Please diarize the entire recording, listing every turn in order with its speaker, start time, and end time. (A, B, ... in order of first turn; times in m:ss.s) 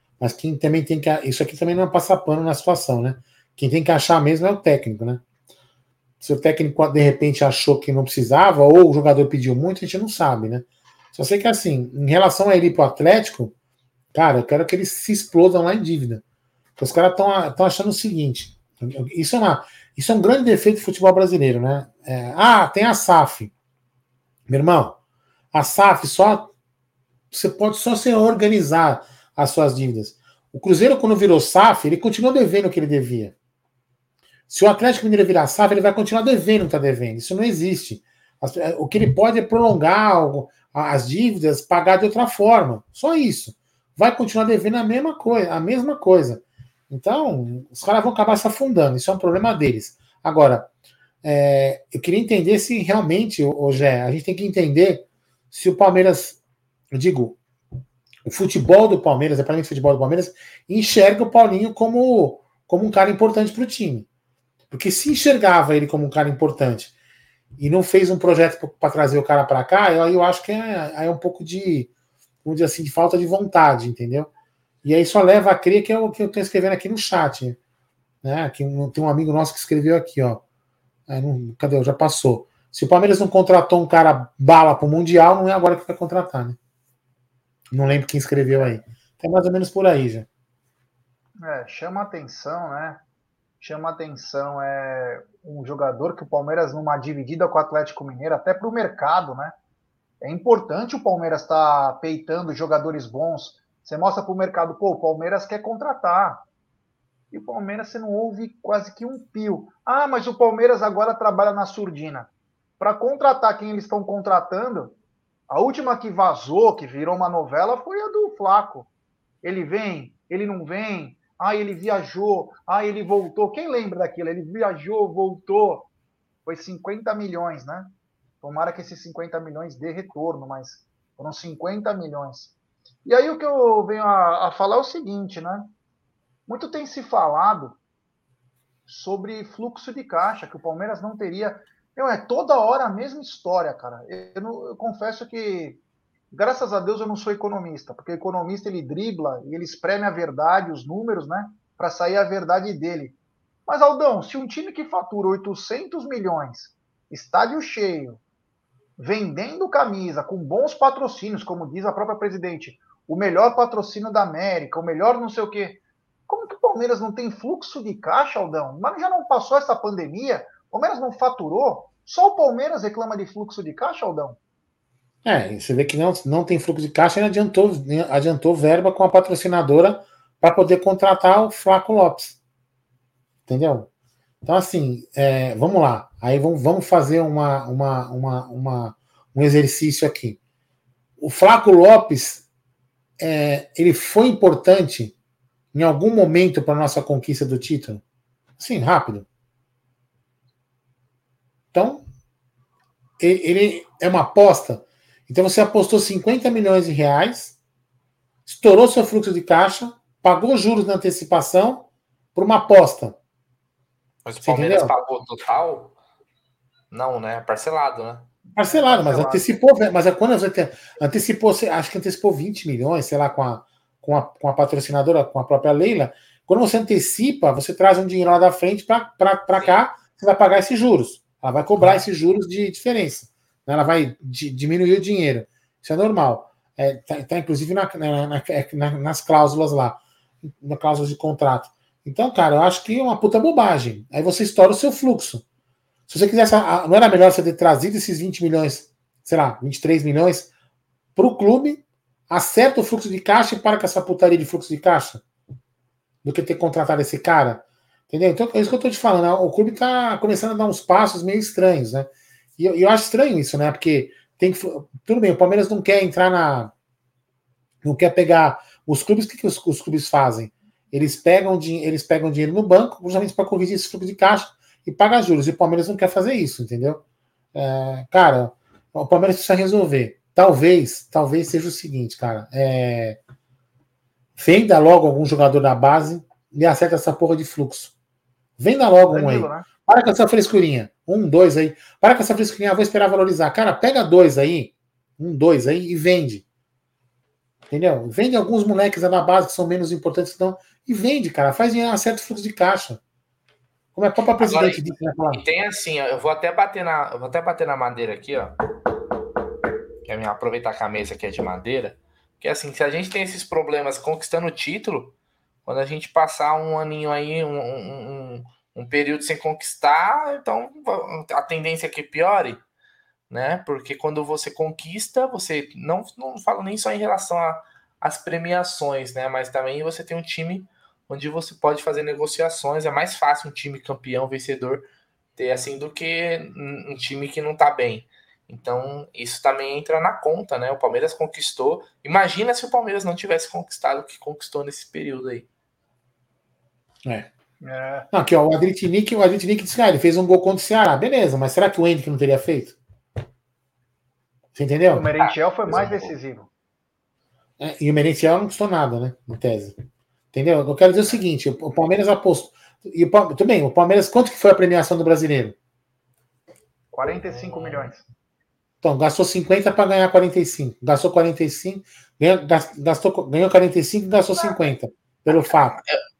0:00.2-0:05.2 A
0:06.2-0:13.5 A
0:14.1-0:16.2 A
0:16.8-0:23.5 A
0:24.5-0:25.0 A
0:25.5-0:26.5 A
0:27.3-0:33.4 A
0:34.5-0:50.7 A
0:51.2-0:56.4 A
0:56.9-0:57.4 A
0:58.2-1:04.1 A
1:04.7-1:06.9 A
1:07.6-1:11.9 A
1:12.4-1:14.3 A
1:14.8-1:17.6 A
1:18.2-1:20.4 A
1:21.1-1:26.6 A
1:27.7-1:30.3 A
1:28.5-1:28.8 B
1:31.4-1:33.0 B
1:33.6-1:39.6 B
1:40.2-1:46.4 B
1:47.3-1:55.0 B
1:55.5-1:58.9 B
1:59.4-2:05.9 B
2:06.4-2:12.5 B
2:13.0-2:15.7 B
2:16.5-2:17.8 B
2:18.8-2:25.8 B
2:26.3-2:38.2 B
2:39.0-2:54.4 B
2:55.2-3:02.4 A
3:03.5-3:03.9 A
3:04.4-3:10.4 A
3:11.2-3:12.4 A
3:13.2-3:15.1 A
3:15.7-3:18.0 A
3:18.6-3:19.3 A
3:21.7-3:22.0 A
3:23.2-3:27.6 A
3:28.4-3:33.2 A
3:34.2-3:36.0 C
3:34.4-3:34.9 A
3:36.9-3:38.3 C
3:38.5-3:39.5 B
3:38.6-4:05.4 A
4:06.1-4:10.5 A
4:11.2-4:15.2 A
4:16.2-4:26.7 A
4:27.8-4:37.0 A
4:37.5-4:43.2 A
4:44.4-4:47.9 A
4:48.6-4:56.4 A
4:49.1-4:49.7 B
4:57.7-5:03.0 A
5:03.9-5:05.4 A
5:04.4-5:04.8 C
5:05.3-5:08.5 C
5:10.0-5:22.6 C
5:23.3-5:34.8 C
5:35.4-5:45.5 C
5:47.6-5:48.1 B
5:48.1-5:52.8 A
5:54.5-5:55.1 A
5:54.9-5:56.5 B
5:55.2-5:56.1 C
5:57.6-5:59.7 A
6:00.3-6:05.6 A
6:06.9-6:08.0 B
6:07.2-6:07.9 C
6:08.8-6:15.8 A
6:15.3-6:16.0 C